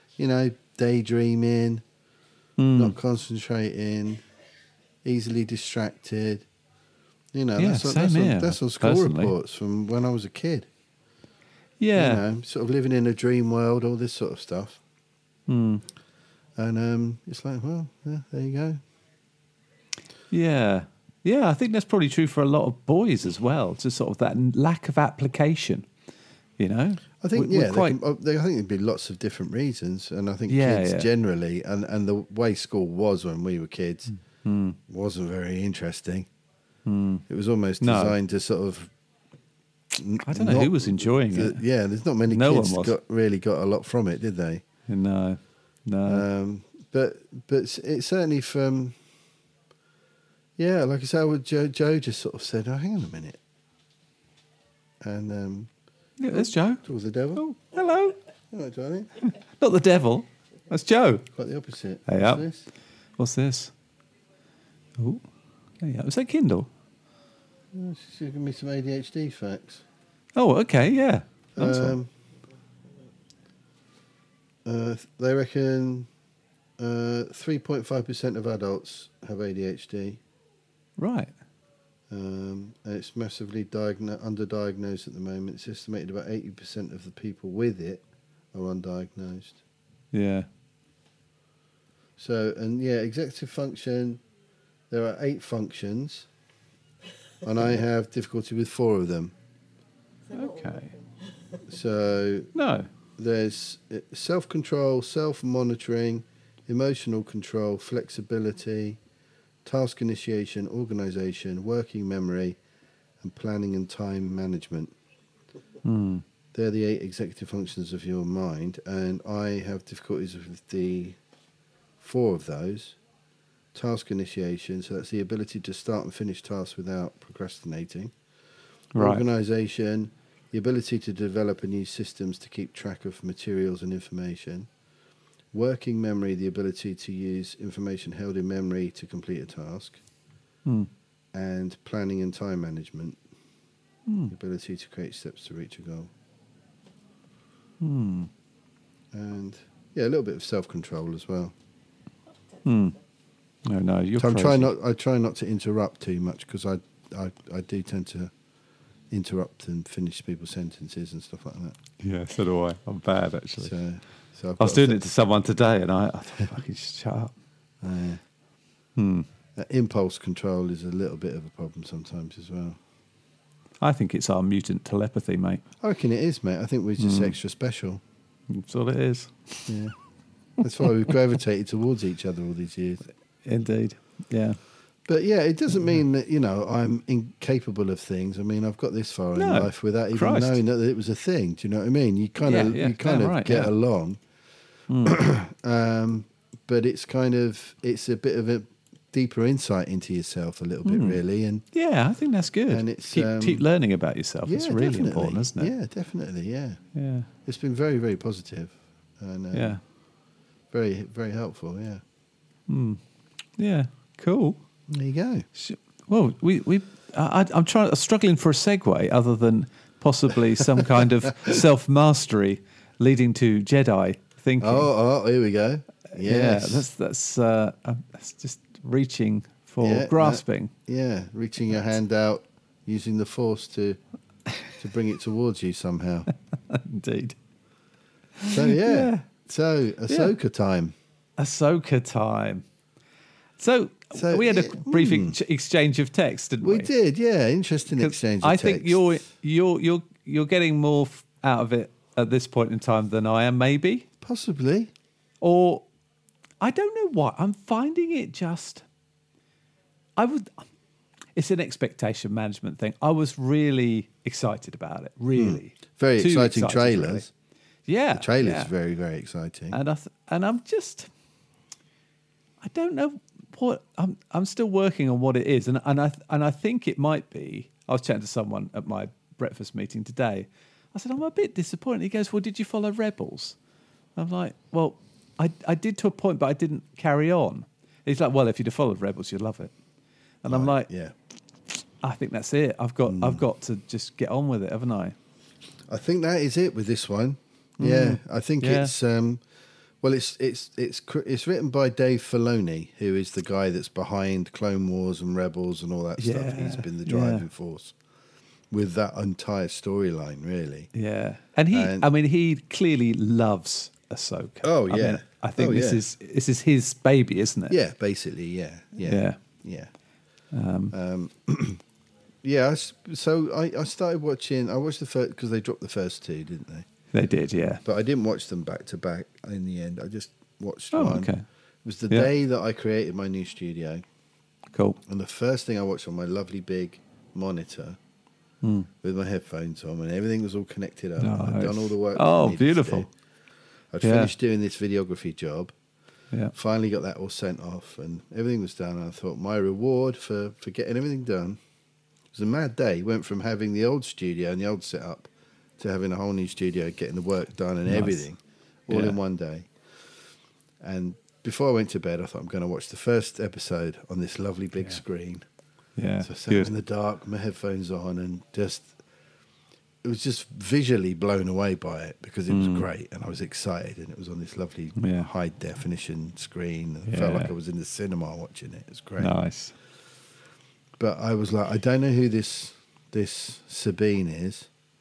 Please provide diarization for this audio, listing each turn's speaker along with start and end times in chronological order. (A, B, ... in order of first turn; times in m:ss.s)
0:00.2-0:01.8 A
0:02.6-0:02.9 B
0:02.7-0:04.2 A
0:05.0-0:06.4 A
0:07.3-0:10.7 A
0:07.6-0:09.3 B
0:11.8-0:12.2 B
0:11.9-0:14.8 A
0:15.5-0:15.8 B
0:16.6-0:18.8 A
0:20.3-0:25.9 B
0:26.6-0:28.0 B
0:27.2-0:34.1 A
0:30.5-0:31.1 B
0:34.4-0:34.8 B
0:34.9-0:36.3 A
0:36.8-0:37.2 B
0:37.3-0:38.9 A
0:37.8-0:38.2 B
0:39.9-0:44.6 A
0:40.2-0:41.6 B
0:42.3-0:43.0 B
0:44.9-0:46.2 B
0:46.0-0:49.0 A
0:50.6-0:53.4 A
0:55.0-0:55.7 A
0:56.2-0:56.8 B
0:56.3-0:57.4 A
0:57.3-0:58.2 B
0:58.5-0:59.1 A
0:59.2-1:01.3 B
1:01.3-1:02.7 A
1:02.1-1:02.4 B
1:03.2-1:03.7 B
1:05.0-1:05.2 B
1:05.8-1:06.7 B
1:07.7-1:09.8 A
1:10.4-1:12.0 B
1:11.6-1:12.1 A
1:14.6-1:16.1 A
1:16.8-1:20.2 A
1:21.0-1:21.3 B
1:22.1-1:28.0 A
1:28.5-1:29.6 A
1:30.1-1:30.5 B
1:32.2-1:34.2 A
1:34.9-1:36.3 A
1:37.4-1:39.3 A
1:40.3-1:40.9 B
1:41.6-1:42.5 A
1:42.5-1:42.9 B
1:43.2-1:49.0 A
1:49.6-1:52.6 A
1:53.2-1:54.9 A
1:55.8-1:56.2 B
1:56.5-2:01.2 A
2:02.0-2:03.0 A
2:03.7-2:08.1 A
2:08.9-2:09.2 B
2:09.0-2:14.7 A
2:15.5-2:20.0 A
2:21.3-2:23.2 A
2:24.1-2:24.3 B
2:24.3-2:26.1 A
2:27.8-2:28.3 B
2:29.1-2:31.5 A
2:32.6-2:33.0 B
2:33.6-2:34.7 B
2:34.2-2:38.3 A
2:39.1-2:41.8 A
2:42.0-2:43.7 B
2:43.6-2:45.0 A
2:44.6-2:47.3 B
2:47.8-2:48.2 A
2:49.0-2:49.3 B
2:49.6-2:52.8 A
2:53.8-2:55.6 B
2:55.8-2:58.0 A
2:57.0-2:57.3 B
2:58.5-2:59.7 B
2:59.7-2:59.9 A
3:00.6-3:03.0 A
3:00.8-3:01.1 B
3:03.4-3:04.6 B
3:05.0-3:14.2 A
3:09.3-3:10.6 B
3:12.4-3:13.7 B
3:14.9-3:15.2 B
3:15.0-3:21.6 A
3:20.8-3:25.7 B
3:22.7-3:23.6 A
3:24.4-3:26.8 A
3:26.9-3:27.3 B
3:27.4-3:29.8 A
3:29.5-3:29.8 B
3:30.7-3:32.0 A
3:32.7-3:33.0 B
3:33.6-3:34.6 B
3:34.9-3:35.5 A
3:35.5-3:44.9 B
3:44.6-3:46.9 A
3:46.1-3:50.7 B
3:49.8-3:54.0 A
3:54.8-3:56.3 A
3:56.7-3:57.4 B
3:58.4-3:59.3 B
3:58.5-4:00.9 A
4:00.1-4:00.3 B
4:01.4-4:02.6 B
4:03.6-4:06.9 B
4:04.1-4:05.4 A
4:06.6-4:09.0 A
4:08.0-4:14.1 B
4:14.2-4:14.9 A
4:15.4-4:15.8 B
4:16.6-4:18.8 B
4:20.2-4:20.6 B
4:21.4-4:27.3 B
4:25.3-4:27.3 A
4:27.9-4:28.7 B
4:28.1-4:29.8 A
4:29.7-4:31.1 B
4:32.6-4:43.6 B
4:44.2-4:49.7 B
4:50.4-4:50.9 B
4:50.5-4:51.1 A
4:52.0-4:55.2 B
4:53.1-4:53.4 A
4:55.9-4:59.4 A
4:57.8-4:58.9 B
5:00.0-5:07.9 A
5:06.2-5:07.4 B
5:08.7-5:10.9 A
5:10.9-5:17.8 B
5:11.7-5:12.1 A
5:14.6-5:16.0 A
5:17.7-5:19.9 A
5:19.0-5:19.4 B
5:20.5-5:20.9 B
5:20.9-5:21.8 A
5:22.4-5:26.9 A
5:27.1-5:27.8 B
5:27.8-5:31.3 A
5:30.9-5:31.4 B
5:31.8-5:34.0 A
5:34.7-5:35.0 B
5:35.1-5:38.0 A
5:38.6-5:38.9 B
5:39.0-5:43.1 A
5:41.2-5:43.1 B
5:43.9-5:45.7 A
5:44.0-5:44.3 B
5:46.5-5:51.6 A
5:52.3-5:59.7 A
5:57.9-5:58.3 B
5:58.9-5:59.2 B
6:00.8-6:05.4 A
6:06.0-6:06.7 B
6:06.2-6:08.9 A
6:10.0-6:19.3 A
6:12.5-6:12.8 B
6:15.0-6:15.3 B
6:17.1-6:17.5 B
6:19.2-6:19.7 B
6:21.0-6:24.7 A